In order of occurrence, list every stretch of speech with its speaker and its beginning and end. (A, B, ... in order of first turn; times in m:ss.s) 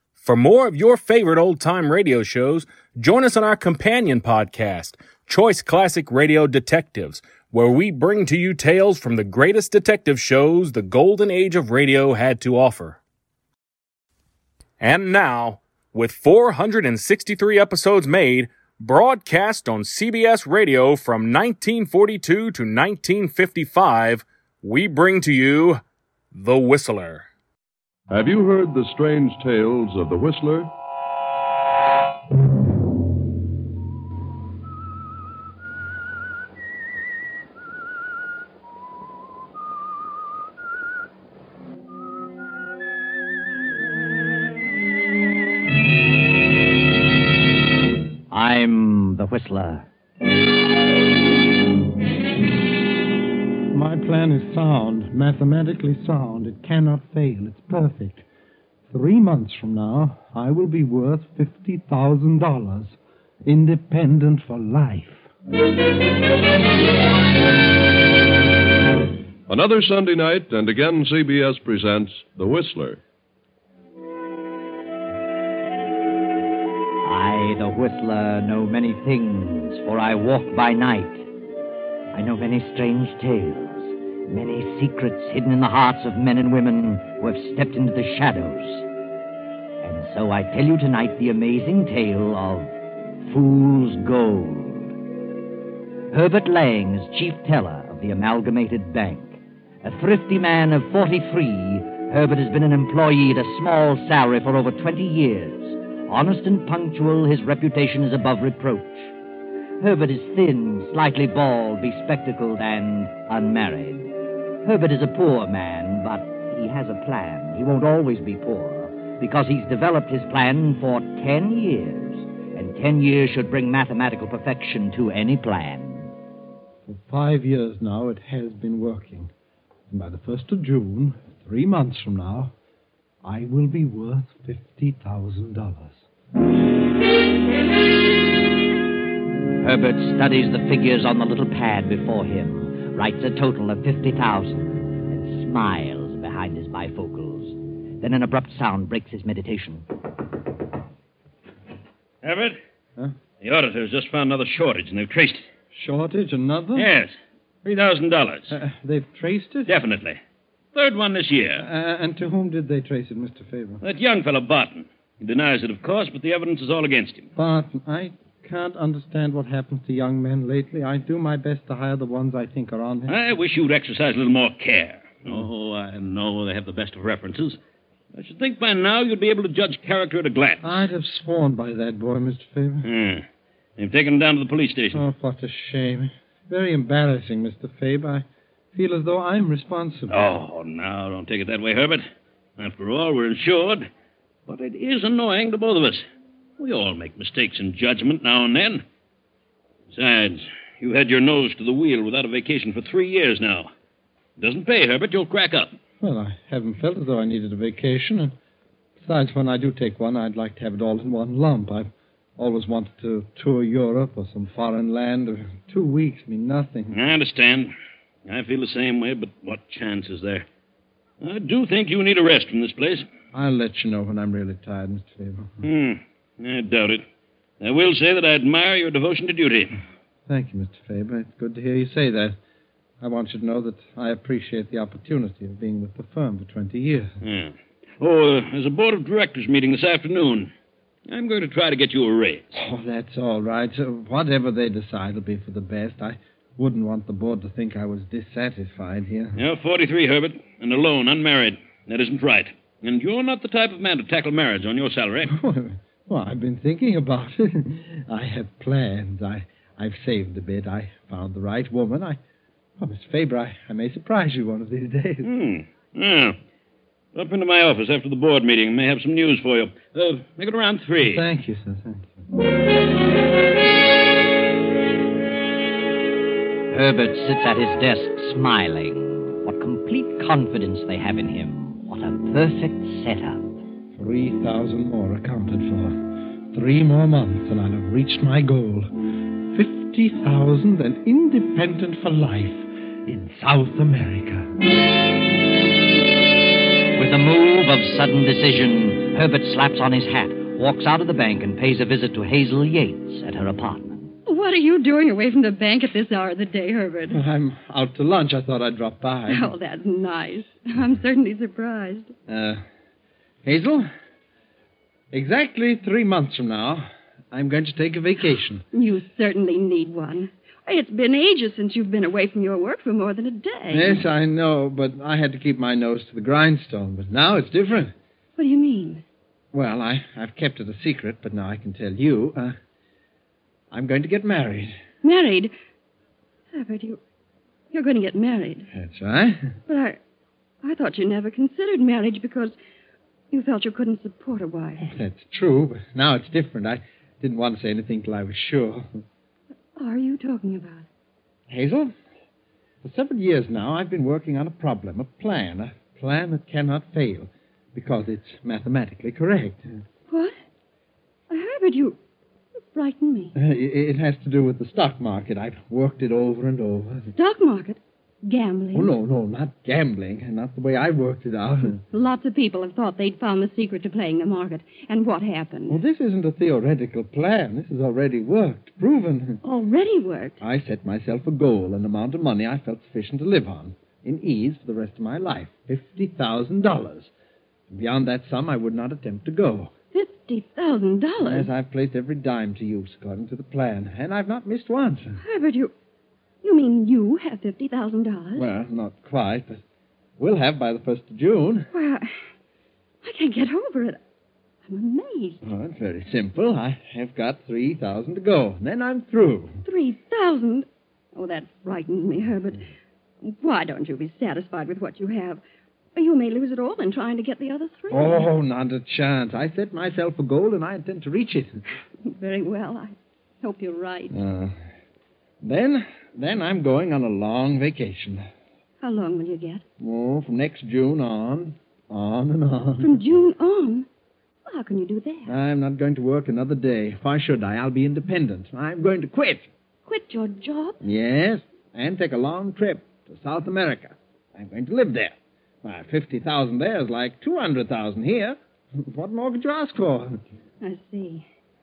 0:00.2-0:13.0 A
0:14.8-0:25.8 A
0:26.3-0:27.3 A
0:28.1-0:30.7 B
0:48.3-0:49.9 C
0:53.7-0:58.2 D
0:58.9-1:05.3 D
1:09.5-1:13.0 B
1:17.0-1:21.3 C
1:22.1-1:28.9 C
1:29.8-1:35.0 C
1:36.1-1:49.1 C
1:49.8-2:06.1 C
2:06.9-2:09.3 D
2:09.9-2:12.5 D
2:13.2-2:16.0 D
2:19.6-2:29.8 C
2:32.2-2:32.6 E
2:33.4-2:35.4 E
2:35.7-2:36.9 D
2:36.8-2:38.6 E
2:38.5-2:39.7 D
2:39.7-2:40.2 E
2:40.7-2:41.7 E
2:41.6-2:43.8 D
2:43.8-2:47.3 E
2:47.4-2:53.1 D
2:53.1-2:57.6 E
2:58.1-3:00.8 E
3:00.6-3:02.9 D
3:02.8-3:03.2 E
3:03.8-3:05.0 E
3:04.9-3:10.2 D
3:10.1-3:12.0 E
3:12.6-3:13.9 E
3:14.5-3:16.0 E
3:16.6-3:18.8 E
3:19.9-3:23.7 E
3:24.4-3:25.7 E
3:26.0-3:28.3 D
3:29.0-3:37.0 D
3:36.9-3:37.7 E
3:38.3-3:40.4 E
3:41.2-3:43.0 E
3:43.3-3:45.6 D
3:45.6-3:47.0 E
3:47.6-3:49.8 E
3:50.3-3:52.4 D
3:53.0-3:57.2 D
3:57.2-4:00.5 E
4:01.1-4:02.5 E
4:02.5-4:09.4 D
4:09.4-4:15.3 E
4:15.2-4:22.2 D
4:22.8-4:25.3 D
4:25.2-4:26.4 E
4:27.1-4:31.2 E
4:31.0-4:32.1 D
4:36.7-4:43.6 C
4:44.0-4:46.0 D
4:46.5-4:48.9 D
4:49.5-4:54.5 D
4:56.9-5:04.1 C
5:04.2-5:07.2 F
5:07.1-5:09.5 D
5:09.3-5:12.1 F
5:12.3-5:12.6 D
5:13.4-5:13.9 D
5:15.1-5:18.6 D
5:18.7-5:24.0 F
5:23.7-5:27.9 D
5:28.4-5:29.0 F
5:29.5-5:32.6 D
5:33.7-5:34.8 D
5:35.0-5:35.5 F
5:36.5-5:37.0 F
5:37.7-5:38.7 F
5:38.7-5:39.5 D
5:39.7-5:40.0 F
5:40.6-5:42.6 F
5:43.3-5:44.9 F
5:44.8-5:49.0 D
5:49.8-5:50.9 F
5:51.5-5:51.9 D
5:52.8-5:59.6 D
6:00.1-6:00.4 F
6:01.3-6:02.0 F
6:02.7-6:03.4 F
6:03.4-6:07.1 D
6:07.1-6:08.9 F
6:08.7-6:11.8 D
6:11.9-6:15.8 F
6:15.7-6:19.4 D
6:19.4-6:20.4 F
6:20.4-6:27.1 D
6:27.7-6:29.7 D
6:29.9-6:31.5 F
6:31.2-6:35.2 D
6:35.2-6:35.7 F
6:36.4-6:38.4 F
6:38.4-6:39.6 D
6:40.2-6:41.7 D
6:41.7-6:42.1 F
6:43.0-6:44.0 F
6:44.7-6:45.4 F
6:45.4-6:49.6 D
6:49.6-6:52.6 F
6:53.2-6:55.4 F
6:55.9-6:58.3 F
6:57.9-7:01.6 D
7:02.0-7:04.2 F
7:04.1-7:04.6 D
7:05.4-7:08.2 D
7:08.8-7:09.6 F
7:09.8-7:13.0 D
7:12.8-7:13.9 F
7:14.5-7:15.3 F
7:15.3-7:19.5 D
7:19.9-7:20.8 F
7:20.8-7:30.2 D
7:30.6-7:31.2 F